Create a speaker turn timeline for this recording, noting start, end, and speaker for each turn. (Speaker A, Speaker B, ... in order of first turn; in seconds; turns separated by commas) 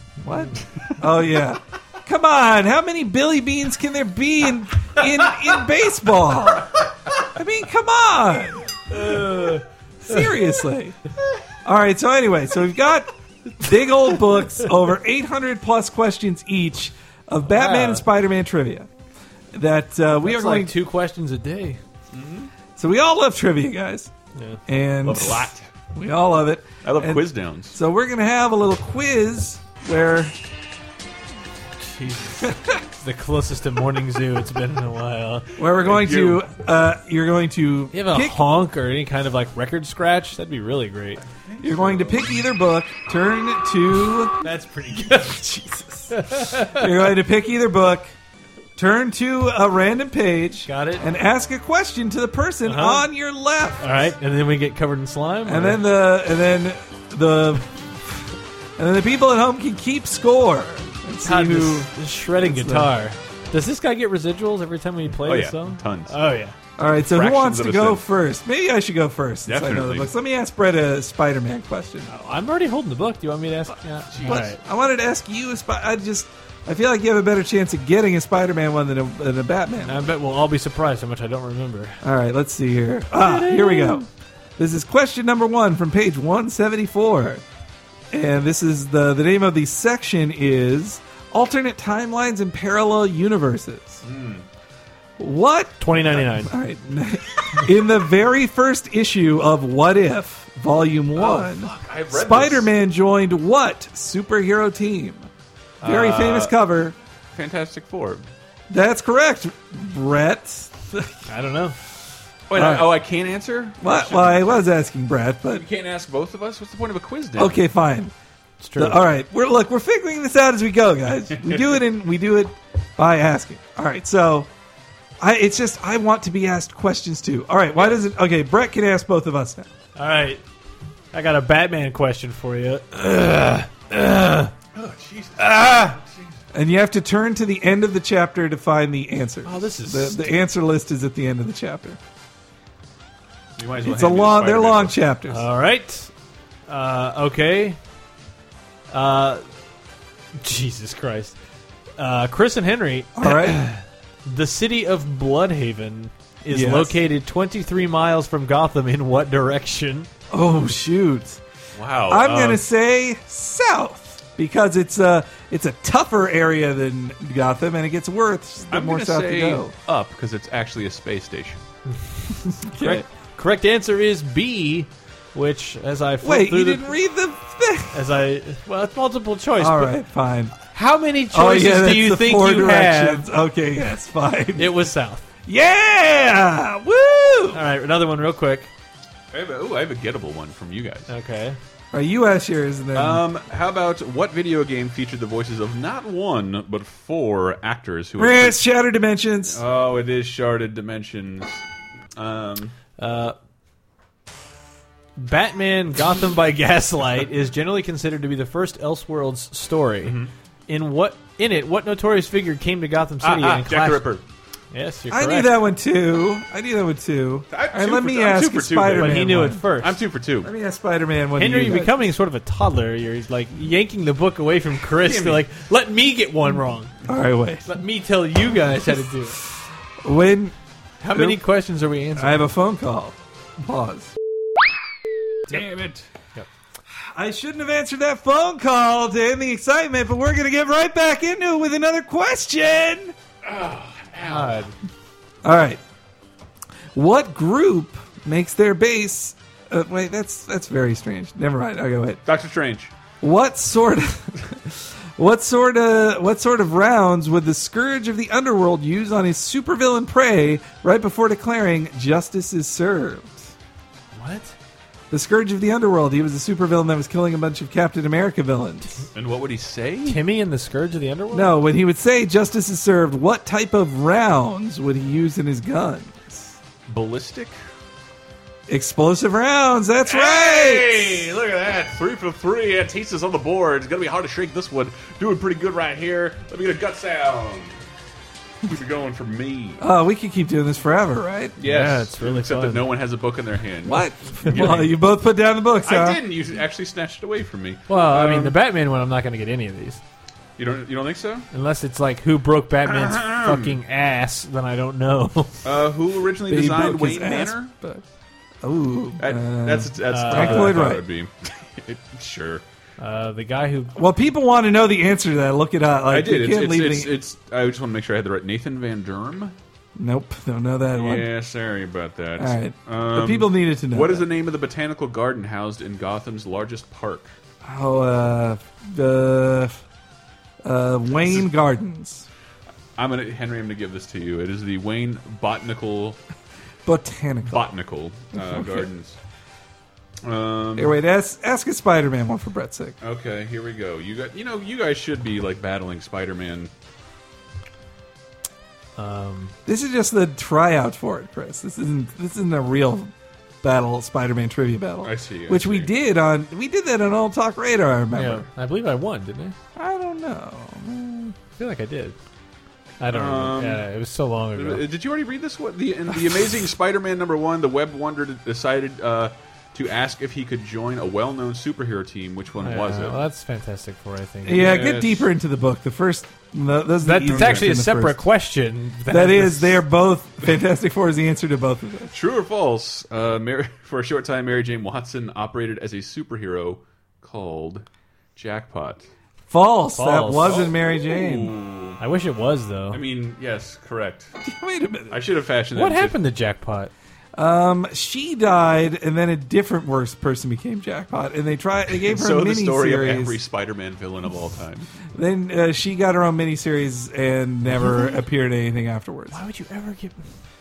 Speaker A: 0.2-9.4, Speaker B: 0.5-1.2, Speaker C: 8.9-9.6, Speaker A: 10.0-11.0, Speaker A: 11.6-18.9, Speaker C: 17.5-18.0, Speaker A: 19.5-20.7, Speaker C: 20.2-21.8, Speaker B: 22.1-22.5, Speaker A: 22.8-24.1, Speaker C: 24.3-24.6, Speaker A: 24.7-30.3, Speaker B: 25.0-25.7, Speaker B: 26.8-27.8, Speaker C: 31.8-35.5, Speaker A: 32.4-32.8, Speaker A: 35.6-38.4, Speaker B: 35.8-36.4, Speaker C: 37.9-41.2, Speaker B: 41.3-42.3, Speaker A: 41.6-44.4, Speaker C: 44.4-45.4, Speaker A: 44.9-48.1, Speaker C: 46.1-46.9, Speaker A: 48.8-53.8, Speaker C: 50.6-51.0, Speaker C: 52.6-53.1, Speaker C: 53.8-55.8, Speaker A: 55.4-62.9, Speaker C: 61.2-66.5, Speaker B: 65.2-66.1, Speaker A: 66.8-72.1, Speaker B: 66.8-68.0, Speaker B: 69.5-70.1, Speaker C: 72.1-74.6, Speaker B: 74.1-74.5, Speaker A: 74.2-80.1, Speaker C: 79.8-82.0, Speaker A: 82.0-84.0, Speaker C: 83.1-84.1, Speaker A: 84.6-87.4, Speaker A: 88.1-94.0, Speaker B: 94.0-94.5, Speaker A: 95.2-105.3, Speaker C: 95.8-96.5, Speaker B: 101.2-102.7, Speaker B: 105.8-106.5, Speaker A: 105.8-107.0, Speaker B: 107.3-108.2, Speaker A: 108.7-111.3, Speaker C: 111.3-111.8, Speaker B: 112.5-114.6, Speaker A: 112.5-112.9, Speaker A: 113.8-115.6, Speaker B: 115.5-117.6, Speaker A: 117.4-118.1, Speaker C: 118.6-119.0, Speaker A: 118.8-124.5, Speaker A: 125.2-129.7, Speaker C: 129.9-130.4, Speaker C: 131.1-134.5, Speaker B: 134.7-136.3, Speaker C: 135.4-136.0, Speaker A: 136.5-142.0, Speaker C: 139.4-140.3, Speaker B: 143.6-145.0, Speaker A: 143.8-145.4, Speaker C: 145.3-146.1, Speaker C: 146.7-147.8, Speaker C: 148.9-149.4, Speaker C: 150.4-151.3, Speaker C: 152.0-160.1, Speaker A: 153.2-153.6, Speaker A: 156.5-157.0, Speaker A: 160.3-161.4, Speaker B: 161.8-162.6, Speaker A: 162.1-169.7, Speaker B: 168.7-171.6, Speaker A: 172.5-173.0, Speaker C: 172.8-176.9, Speaker A: 176.2-178.0, Speaker C: 177.9-180.0, Speaker A: 179.6-180.6, Speaker C: 180.6-183.2, Speaker A: 181.3-184.8, Speaker C: 184.6-185.2, Speaker A: 185.4-187.6, Speaker C: 187.5-188.7, Speaker B: 189.3-191.1, Speaker C: 191.1-191.6, Speaker A: 191.9-193.2, Speaker B: 192.9-198.6, Speaker A: 198.2-199.6, Speaker B: 199.5-201.6, Speaker B: 202.2-202.7, Speaker C: 203.0-203.3, Speaker C: 205.2-210.2, Speaker B: 210.0-210.3, Speaker C: 210.7-214.1, Speaker B: 213.2-214.2, Speaker C: 214.7-215.5, Speaker A: 215.1-219.6, Speaker B: 217.5-220.5, Speaker C: 219.0-220.0, Speaker A: 220.4-221.9, Speaker C: 221.4-226.9, Speaker B: 225.0-225.4, Speaker A: 227.0-227.7, Speaker C: 227.7-229.4, Speaker A: 230.0-230.5, Speaker C: 231.0-232.4, Speaker A: 231.1-231.4, Speaker A: 232.2-234.1, Speaker A: 235.5-235.8, Speaker B: 235.5-235.9, Speaker A: 237.0-243.1, Speaker B: 243.4-244.6, Speaker C: 244.2-244.7, Speaker A: 245.4-245.8, Speaker A: 246.9-252.2, Speaker B: 252.2-252.9, Speaker A: 253.2-263.5, Speaker C: 264.1-264.5, Speaker A: 265.1-268.9, Speaker B: 269.1-270.2, Speaker C: 270.1-271.6, Speaker A: 271.3-276.5, Speaker B: 276.9-277.6, Speaker A: 278.7-281.3, Speaker B: 280.1-287.8, Speaker B: 288.6-289.8, Speaker A: 289.8-291.6, Speaker B: 291.6-294.9, Speaker C: 291.6-292.9, Speaker A: 293.8-296.2, Speaker B: 295.8-298.6, Speaker C: 297.9-300.0, Speaker B: 300.6-301.5, Speaker C: 301.5-305.6, Speaker B: 302.8-303.8, Speaker B: 305.6-307.7, Speaker A: 306.5-308.0, Speaker A: 308.6-311.1, Speaker B: 309.2-312.6, Speaker C: 310.1-310.9, Speaker C: 313.0-313.9, Speaker A: 313.9-317.2, Speaker B: 316.1-319.5, Speaker A: 319.9-321.3, Speaker B: 320.9-327.3, Speaker A: 322.4-324.2, Speaker A: 327.6-329.8, Speaker A: 330.6-332.3, Speaker B: 333.0-336.2, Speaker A: 336.9-337.6, Speaker B: 337.4-339.2, Speaker A: 338.4-338.9, Speaker B: 340.2-341.0, Speaker A: 340.8-342.9, Speaker B: 343.0-346.7, Speaker C: 348.9-349.5, Speaker A: 349.6-358.5, Speaker B: 355.0-355.9, Speaker C: 358.1-359.6, Speaker A: 359.8-361.4, Speaker C: 361.6-362.1, Speaker C: 363.0-364.8, Speaker B: 363.1-363.9, Speaker B: 364.5-373.2, Speaker C: 372.6-374.7, Speaker A: 374.4-378.2, Speaker B: 374.5-375.3, Speaker C: 377.0-379.8, Speaker B: 377.3-377.7, Speaker A: 379.1-382.1, Speaker B: 382.1-389.1, Speaker A: 389.5-391.5, Speaker C: 389.9-390.7, Speaker B: 390.4-392.0, Speaker C: 392.0-393.0, Speaker B: 392.9-394.3, Speaker A: 394.4-395.2, Speaker B: 395.1-396.2, Speaker C: 395.7-396.9, Speaker A: 397.4-403.4, Speaker B: 401.9-404.9, Speaker A: 405.1-409.4, Speaker C: 409.3-410.2